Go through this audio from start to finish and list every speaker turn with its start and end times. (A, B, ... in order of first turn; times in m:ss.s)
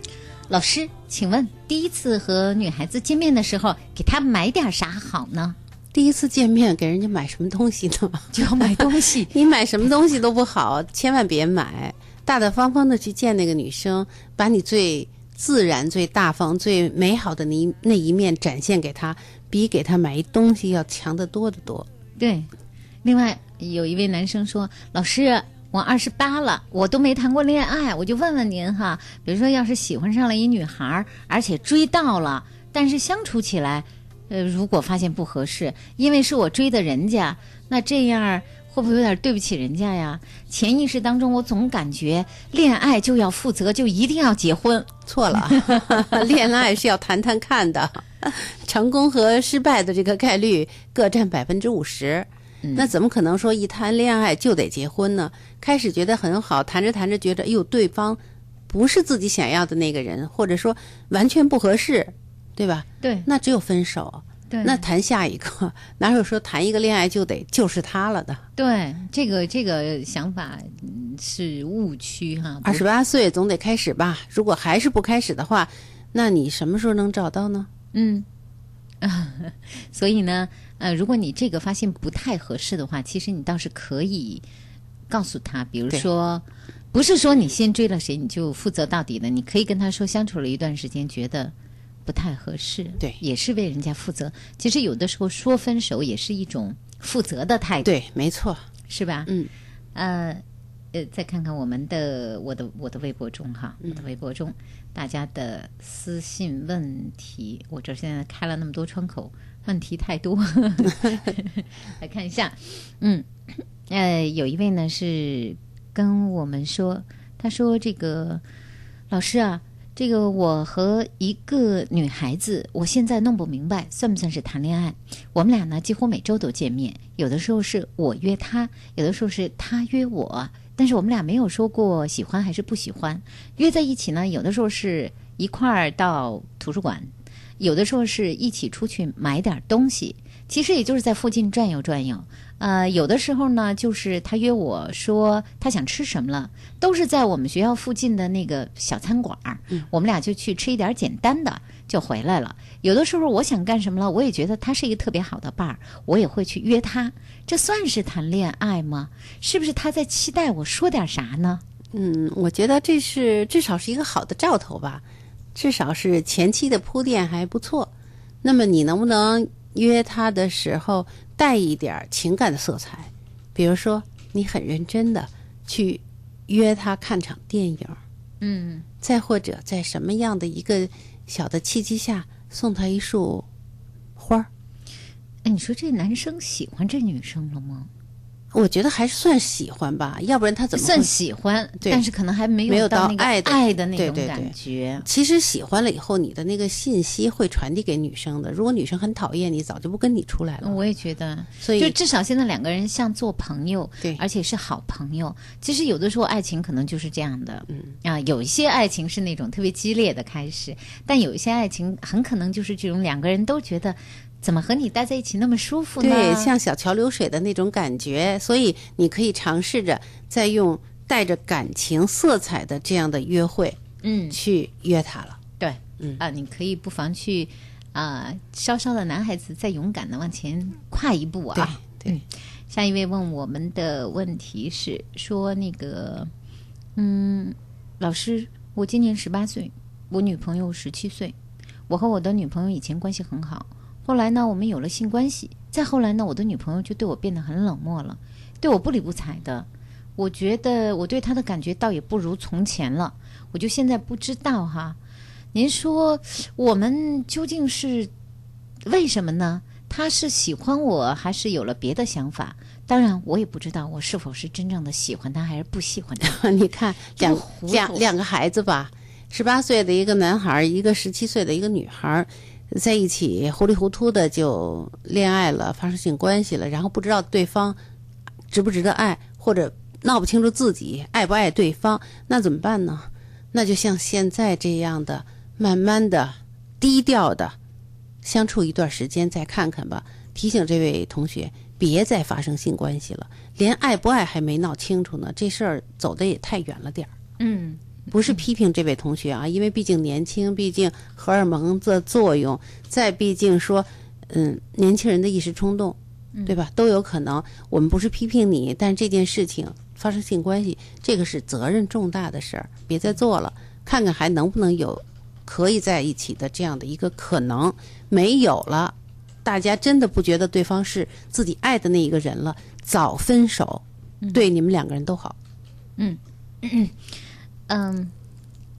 0:00.5-0:05.6 A
0:05.9-0:21.9 B
0:08.3-0:09.3 A
0:22.2-0:22.5 A
0:23.0-0:46.2 A
0:45.0-1:08.4 B
0:52.6-0:52.9 A
1:03.0-1:03.3 A
1:04.5-1:04.8 A
1:08.6-1:12.8 A
1:12.6-1:17.7 B
1:17.9-1:18.2 A
1:19.0-1:24.4 A
1:25.1-1:31.5 A
1:32.0-1:37.9 A
1:37.8-1:38.6 B
1:38.9-1:39.3 A
1:39.9-1:40.4 A
1:40.9-1:58.4 A
1:59.1-2:41.6 A
2:41.9-2:45.0 B
2:45.5-2:47.9 B
2:48.4-2:58.0 B
2:58.4-2:58.8 A
2:59.0-3:03.5 B
3:04.2-3:04.5 B
3:05.4-3:07.9 A
3:08.5-3:11.1 B
3:10.7-3:15.0 A
3:11.8-3:12.0 B
3:12.7-3:20.8 B
3:20.6-3:36.5 A
3:21.6-3:22.0 B
3:27.7-3:27.9 B
3:36.0-3:43.8 B
3:44.0-3:44.4 A
3:44.3-3:45.4 B
3:45.6-3:56.3 A
3:51.5-3:52.2 B
3:57.0-4:01.3 A
4:01.9-4:15.0 A
4:15.5-4:18.1 A
4:18.8-4:26.4 A
4:26.2-4:37.8 B
4:27.2-4:28.1 A
4:38.5-4:47.6 B
4:48.2-4:57.1 B
4:57.4-4:58.4 A
4:58.1-5:25.4 B
5:24.2-5:24.5 A
5:26.0-5:27.1 A
5:27.7-5:28.1 A